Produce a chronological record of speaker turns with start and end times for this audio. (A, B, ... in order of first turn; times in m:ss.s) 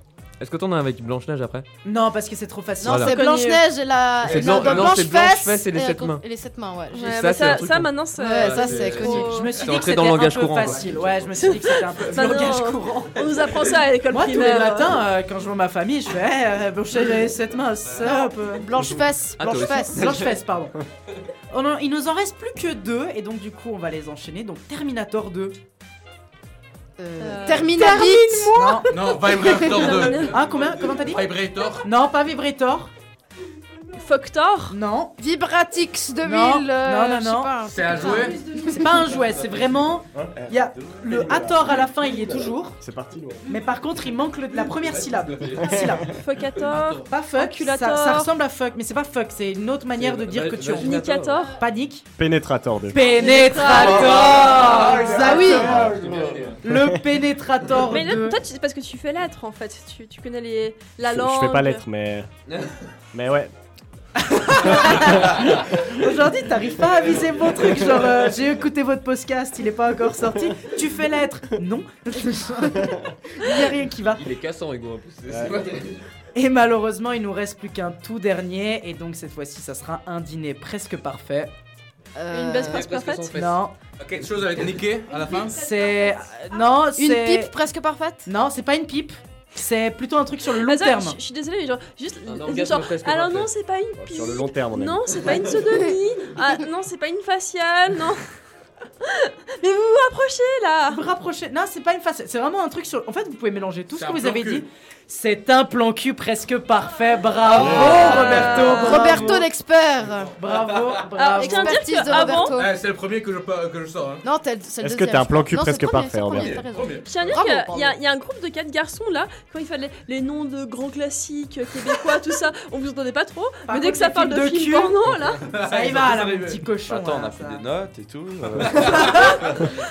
0:00.4-0:01.6 A
0:01.8-0:03.6 B
0:02.8-0:07.6 C
0:02.8-0:03.2 A
0:03.2-0:03.6 D
0:04.2-0:06.2 A
0:04.3-0:05.0 B
0:06.9-0:09.6 D
0:07.0-0:11.6 A
0:08.2-0:09.5 C
0:09.0-0:13.2 B
0:11.4-0:15.0 D
0:14.1-0:19.0 B
0:17.9-0:20.1 C
0:19.4-0:20.4 A
0:19.6-0:20.7 B
0:21.5-0:25.6 B
0:27.0-0:30.0 C
0:27.2-0:30.4 D
0:27.7-0:28.9 B
0:28.9-0:30.3 E
0:29.7-0:31.2 B
0:30.4-0:31.1 A
0:31.0-0:31.9 E
0:31.8-0:32.9 B
0:34.0-0:34.8 D
0:34.7-0:35.2 B
0:35.2-0:39.2 C
0:36.2-0:42.8 B
0:37.7-0:38.4 E
0:39.0-0:40.0 A
0:41.2-0:42.4 A
0:42.8-0:43.4 F
0:43.5-0:46.2 B
0:46.1-0:48.3 D
0:46.6-0:47.0 E
0:47.0-0:52.1 B
0:49.9-0:51.5 A
0:50.7-0:51.6 D
0:52.2-0:53.1 F
0:52.9-0:56.0 B
0:53.1-0:55.0 D
0:53.3-0:55.8 C
0:53.7-0:56.7 A
0:56.6-0:58.4 B
0:57.9-1:01.8 D
1:01.0-1:02.3 F
1:03.1-1:03.5 F
1:04.2-1:14.2 B
1:04.7-1:05.1 F
1:13.9-1:16.0 A
1:16.4-1:21.5 B
1:22.2-1:22.9 C
1:22.3-1:23.4 D
1:22.6-1:24.8 A
1:23.3-1:23.7 B
1:24.0-1:25.6 E
1:25.1-1:28.3 C
1:25.5-1:27.5 B
1:28.3-1:31.2 B
1:30.6-1:38.2 D
1:32.3-1:33.5 A
1:34.0-1:35.4 F
1:39.0-1:41.0 D
1:40.9-1:49.4 B
1:43.9-1:44.6 E
1:47.5-1:48.1 F
1:47.6-1:49.1 D
1:48.2-1:50.4 C
1:50.4-1:52.4 B
1:51.2-1:52.6 D
1:51.3-1:52.8 C
1:52.6-1:54.2 E
1:54.2-1:58.0 C
1:54.8-1:56.6 F
1:56.3-1:57.1 E
1:57.0-2:05.5 D
2:03.7-2:05.0 B
2:05.4-2:06.6 E
2:05.6-2:07.6 B
2:06.9-2:09.3 G
2:08.7-2:09.3 E
2:08.9-2:09.2 B